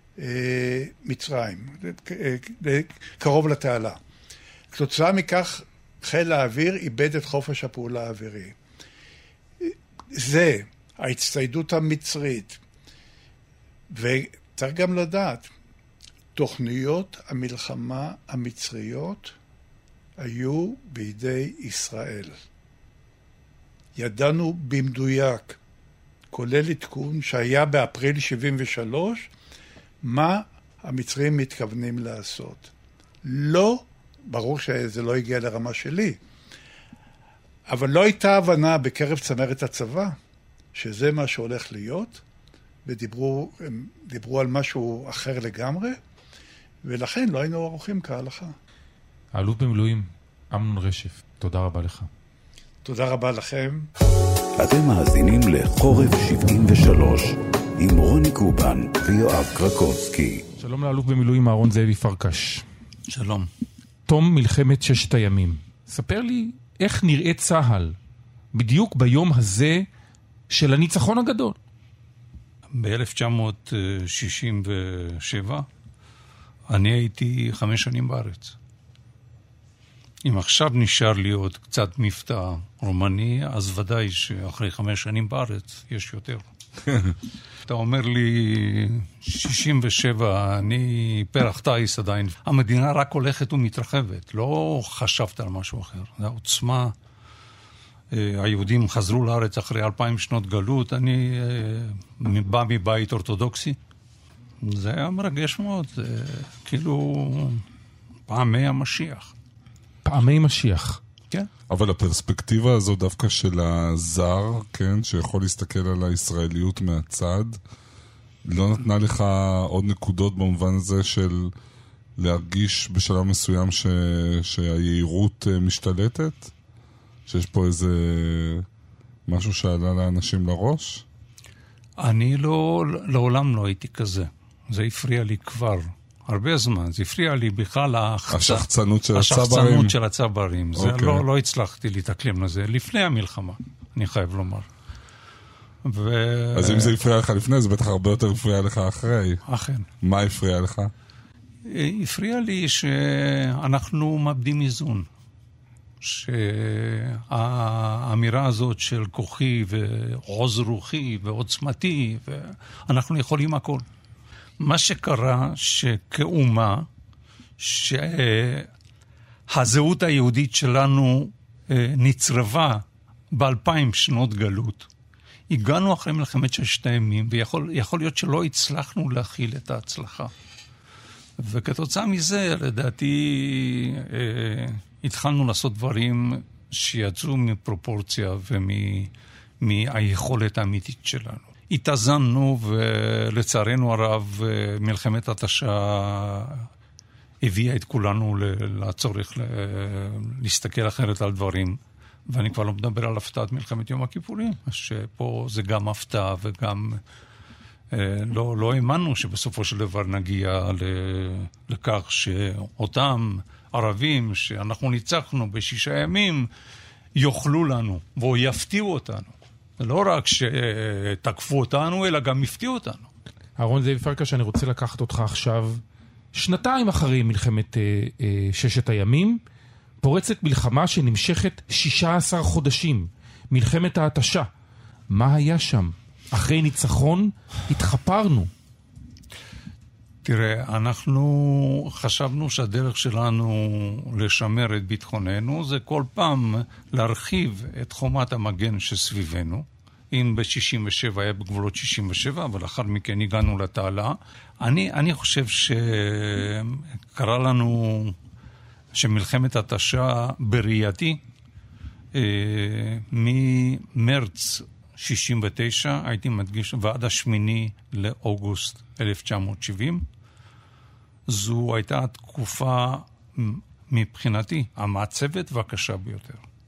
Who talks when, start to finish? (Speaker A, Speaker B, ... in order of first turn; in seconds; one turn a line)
Speaker A: 0.2-4.0
Speaker A: 4.7-8.6
Speaker A: 9.6-12.6
Speaker A: 13.9-15.5
Speaker A: 16.3-19.3
Speaker A: 20.2-22.3
Speaker A: 23.9-25.6
Speaker A: 26.3-29.3
Speaker A: 30.0-32.7
Speaker A: 33.2-36.2
Speaker A: 37.7-40.1
Speaker A: 40.7-42.2
Speaker A: 42.8-46.0
Speaker A: 46.8-48.5
Speaker B: 49.3-52.1
Speaker A: 52.8-53.9
Speaker C: 54.6-60.4
Speaker B: 60.6-62.6
Speaker D: 63.1-63.5
Speaker B: 64.1-68.0
Speaker B: 68.5-69.8
Speaker B: 70.5-71.6
Speaker D: 72.7-75.7
Speaker D: 76.7-78.5
Speaker D: 80.2-86.5
Speaker D: 87.7-96.9
Speaker D: 98.1-103.8
Speaker D: 104.6-107.6
Speaker D: 108.3-109.3
Speaker B: 110.0-111.0
Speaker E: 111.7-117.6
Speaker E: 118.4-121.5
Speaker E: 122.2-126.5
Speaker E: 127.3-128.7
Speaker E: 129.3-131.0
Speaker D: 132.0-144.7
Speaker E: 138.3-139.9
Speaker E: 140.8-141.2
Speaker D: 145.8-147.0
Speaker E: 146.5-149.4
Speaker D: 149.5-149.9
Speaker E: 150.0-150.9
Speaker D: 151.7-155.1
Speaker D: 156.0-163.8
Speaker D: 164.6-166.9
Speaker D: 167.6-168.7
Speaker D: 169.5-172.8
Speaker D: 173.3-174.9
Speaker D: 175.5-180.3
Speaker D: 181.4-189.1
Speaker D: 189.6-196.7
Speaker D: 197.4-201.8
Speaker D: 202.3-207.0
Speaker D: 207.9-216.5
Speaker D: 217.2-223.1
Speaker B: 223.6-225.8
Speaker B: 226.3-229.4
Speaker B: 230.0-234.5
Speaker B: 235.1-238.5
Speaker D: 240.2-258.1
Speaker D: 258.9-261.2
Speaker D: 262.1-270.0
Speaker D: 271.3-276.4